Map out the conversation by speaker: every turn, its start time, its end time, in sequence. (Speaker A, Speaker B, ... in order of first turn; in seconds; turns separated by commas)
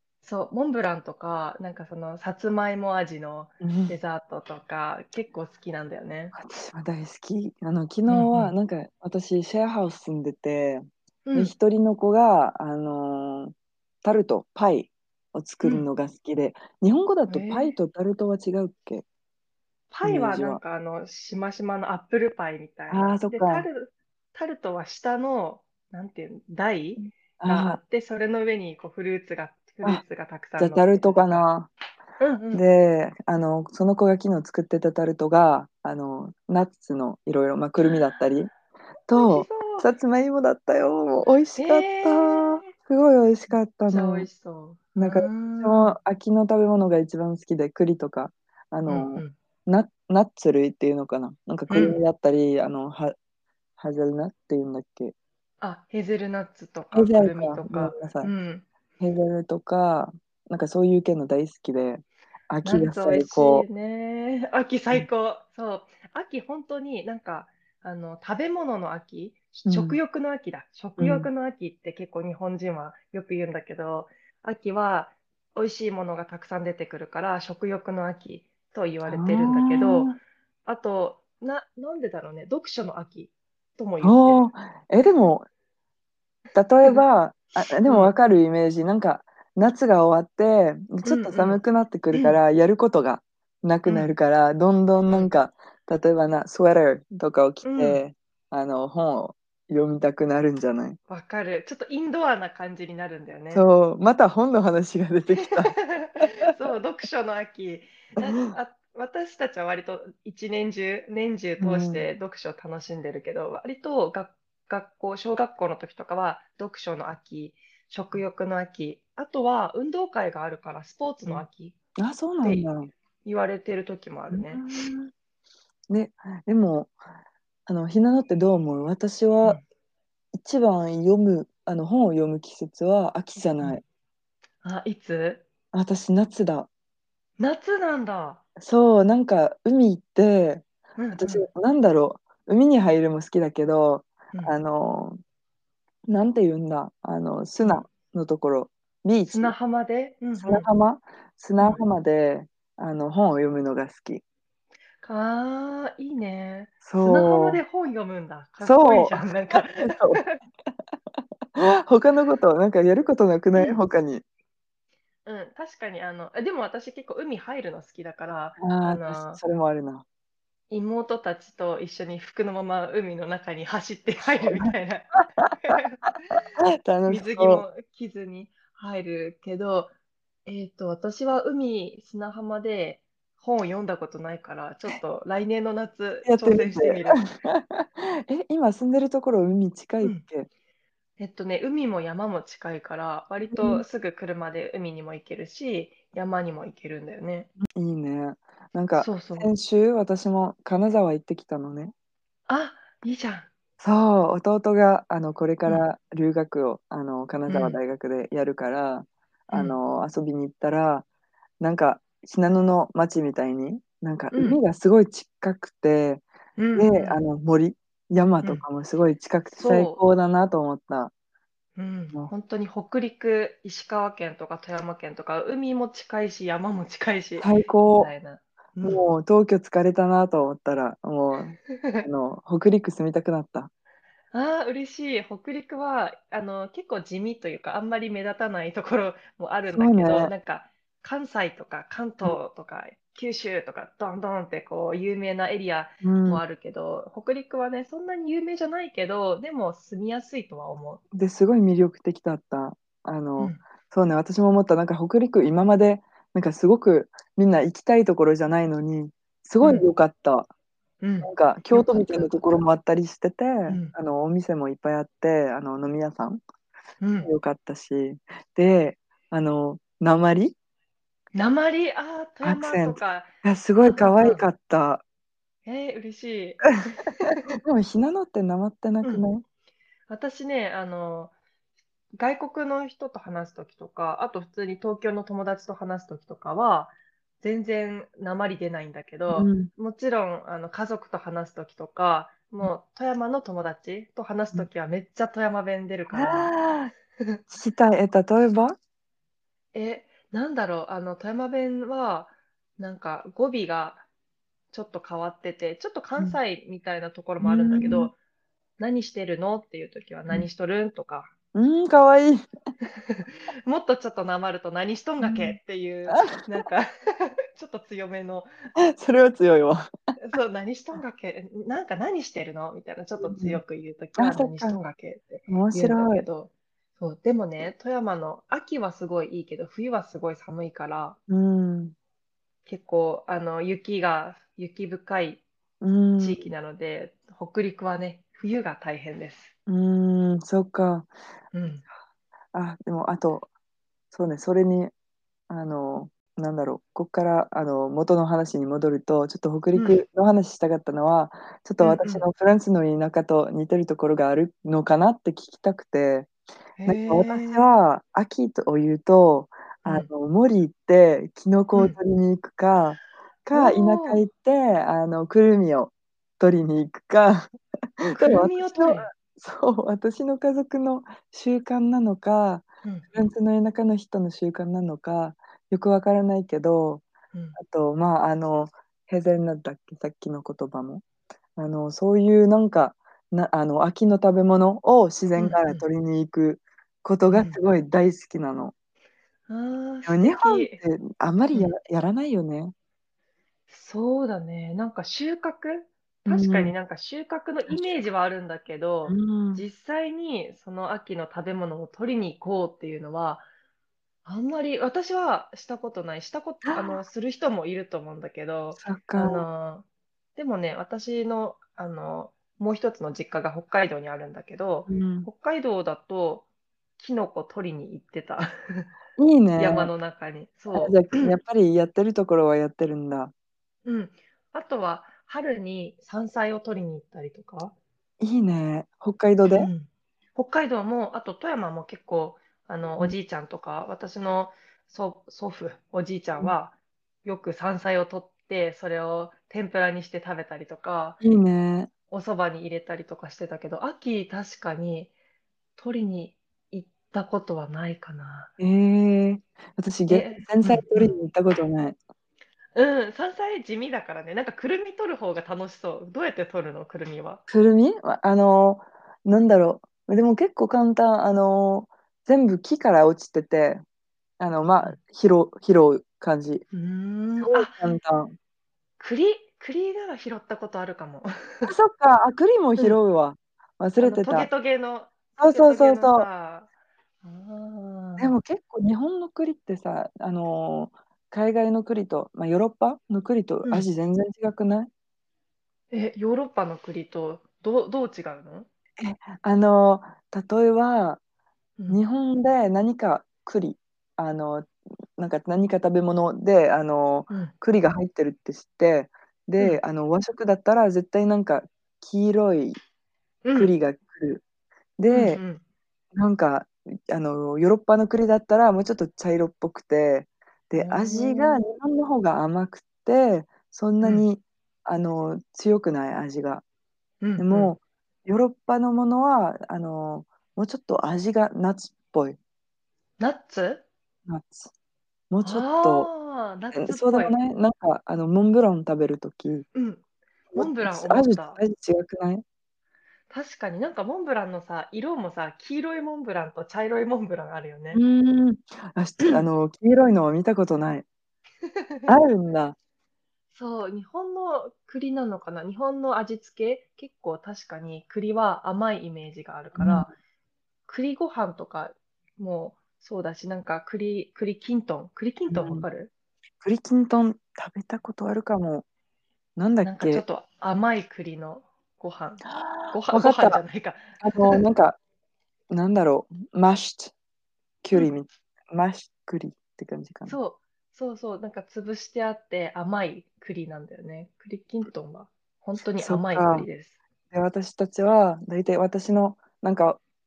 Speaker A: 0.2-6.3, Speaker B: 3.6-4.0, Speaker B: 6.3-19.1, Speaker A: 8.1-8.6, Speaker A: 11.3-11.5, Speaker A: 17.3-17.7, Speaker A: 19.9-31.5, Speaker B: 20.0-20.6, Speaker B: 22.9-23.7, Speaker B: 27.0-27.8, Speaker B: 30.6-31.7, Speaker A: 32.2-32.6, Speaker B: 32.5-38.5, Speaker B: 39.1-44.3, Speaker A: 39.1-39.9, Speaker A: 41.6-42.7, Speaker A: 43.9-46.0, Speaker B: 45.0-53.2, Speaker A: 48.9-49.3, Speaker A: 51.7-52.0, Speaker B: 53.8-55.1, Speaker A: 55.6-58.7, Speaker B: 56.9-58.3, Speaker B: 59.0-63.7, Speaker A: 62.6-84.5, Speaker B: 69.7-70.0, Speaker B: 71.0-71.3, Speaker B: 79.1-80.2, Speaker B: 84.0-85.5, Speaker B: 86.5-101.0, Speaker A: 87.8-88.1, Speaker A: 91.0-92.4, Speaker A: 95.1-95.3, Speaker A: 97.6-98.0, Speaker A: 101.1-103.7, Speaker B: 103.5-106.3, Speaker A: 105.4-121.8, Speaker B: 108.2-108.5, Speaker B: 111.6-112.0, Speaker B: 122.0-122.9, Speaker A: 122.4-122.7, Speaker A: 123.2-124.7, Speaker B: 124.3-125.1, Speaker B: 125.9-127.0, Speaker B: 127.7-129.6, Speaker B: 130.3-133.8, Speaker A: 134.6-135.4, Speaker B: 135.7-136.7, Speaker A: 137.4-138.4, Speaker B: 138.6-145.2, Speaker A: 141.0-141.5, Speaker B: 146.1-149.5, Speaker A: 149.3-150.7, Speaker B: 150.4-154.2, Speaker A: 151.6-151.8, Speaker A: 155.0-160.4, Speaker B: 156.8-157.6, Speaker B: 158.6-160.2, Speaker B: 161.6-164.2, Speaker A: 163.5-163.8, Speaker A: 165.2-169.4, Speaker B: 168.6-170.1, Speaker A: 170.7-176.4, Speaker B: 174.4-174.7, Speaker B: 176.6-177.7, Speaker A: 177.1-179.9, Speaker A: 180.5-187.2, Speaker B: 186.2-190.5, Speaker A: 191.2-197.5, Speaker B: 193.5-193.8, Speaker B: 197.7-201.9, Speaker A: 199.0-199.5, Speaker A: 202.5-203.5, Speaker B: 203.8-211.1, Speaker A: 207.5-207.8, Speaker A: 209.5-209.8, Speaker B: 211.6-221.1, Speaker A: 214.3-214.6, Speaker A: 216.6-217.2, Speaker A: 219.6-220.0, Speaker A: 221.8-229.0, Speaker B: 227.4-228.1, Speaker B: 228.8-233.7, Speaker A: 231.8-232.1, Speaker A: 234.3-251.0, Speaker B: 239.7-240.3, Speaker B: 246.0-246.4, Speaker B: 251.1-260.5, Speaker A: 259.6-259.9, Speaker A: 261.0-262.5, Speaker B: 261.2-266.4, Speaker A: 263.7-263.9, Speaker A: 267.0-267.3, Speaker B: 267.2-270.6, Speaker A: 271.3-274.4, Speaker B: 272.4-275.0, Speaker A: 275.6-277.4, Speaker B: 277.6-279.4, Speaker A: 280.1-281.3, Speaker A: 282.2-296.5, Speaker B: 289.3-289.7, Speaker B: 296.1-296.9, Speaker B: 297.5-298.8, Speaker A: 299.7-304.0, Speaker A: 304.7-308.1, Speaker B: 307.4-308.1, Speaker A: 308.8-311.3, Speaker B: 311.5-312.4, Speaker A: 313.0-318.5, Speaker B: 315.2-315.6, Speaker B: 316.1-316.5, Speaker B: 318.8-319.9, Speaker A: 320.2-331.2, Speaker B: 323.2-323.6, Speaker B: 324.2-324.8, Speaker B: 325.5-326.2, Speaker B: 331.3-331.9, Speaker A: 332.7-335.4, Speaker B: 335.8-336.4, Speaker A: 336.2-339.5, Speaker B: 339.7-341.1, Speaker A: 341.5-341.9, Speaker B: 342.5-343.5, Speaker B: 344.1-344.9, Speaker B: 345.5-356.3, Speaker A: 349.7-350.0, Speaker A: 351.8-352.3, Speaker A: 356.8-357.7, Speaker B: 356.9-377.1, Speaker A: 359.8-360.1, Speaker A: 363.5-364.2, Speaker A: 368.2-369.1, Speaker B: 377.6-381.0, Speaker B: 381.6-388.7, Speaker A: 385.4-385.9, Speaker A: 387.3-387.6, Speaker A: 389.5-390.8, Speaker B: 390.1-392.7, Speaker A: 393.7-403.5, Speaker B: 396.3-396.7, Speaker B: 397.7-398.0, Speaker B: 399.1-399.7, Speaker A: 404.2-409.9, Speaker B: 406.7-406.9, Speaker B: 408.8-409.5, Speaker A: 410.4-416.5, Speaker B: 414.9-415.3, Speaker A: 417.0-418.9, Speaker B: 419.2-419.9, Speaker A: 419.6-421.4, Speaker B: 420.7-423.3, Speaker A: 423.9-427.8, Speaker B: 428.2-429.7, Speaker A: 429.5-441.2, Speaker B: 441.2-441.9, Speaker A: 442.1-445.1, Speaker A: 445.8-448.5, Speaker B: 448.6-452.0, Speaker A: 450.1-451.2, Speaker A: 452.8-457.4, Speaker B: 457.5-463.8, Speaker B: 464.4-466.6, Speaker A: 466.7-467.9, Speaker B: 467.4-468.4, Speaker A: 469.0-471.7, Speaker B: 471.7-474.5, Speaker A: 474.0-476.7, Speaker B: 475.4-476.3, Speaker A: 477.2-478.4, Speaker B: 478.2-484.9, Speaker A: 485.9-488.7, Speaker B: 489.0-491.2, Speaker B: 491.9-502.8, Speaker A: 503.4-503.7, Speaker B: 503.6-504.4, Speaker B: 505.0-505.4, Speaker A: 505.1-505.6, Speaker B: 506.1-516.6, Speaker A: 510.8-511.6, Speaker A: 514.0-514.3, Speaker A: 517.2-517.7, Speaker B: 517.4-522.4, Speaker A: 523.2-523.9, Speaker B: 524.3-524.7, Speaker B: 525.3-526.1, Speaker A: 525.4-527.4, Speaker B: 526.7-529.7, Speaker A: 529.8-531.6, Speaker B: 530.5-532.4, Speaker A: 533.3-538.0, Speaker B: 537.9-541.1, Speaker B: 542.1-542.8, Speaker A: 543.5-550.1, Speaker B: 549.8-550.1, Speaker A: 550.9-556.1, Speaker B: 555.5-555.9, Speaker B: 556.6-558.9, Speaker B: 559.6-560.2, Speaker A: 559.8-564.6, Speaker B: 562.6-563.6, Speaker B: 564.2-565.0, Speaker B: 565.7-567.1, Speaker B: 567.8-570.4, Speaker A: 570.3-577.0, Speaker B: 576.0-576.7, Speaker B: 577.3-580.0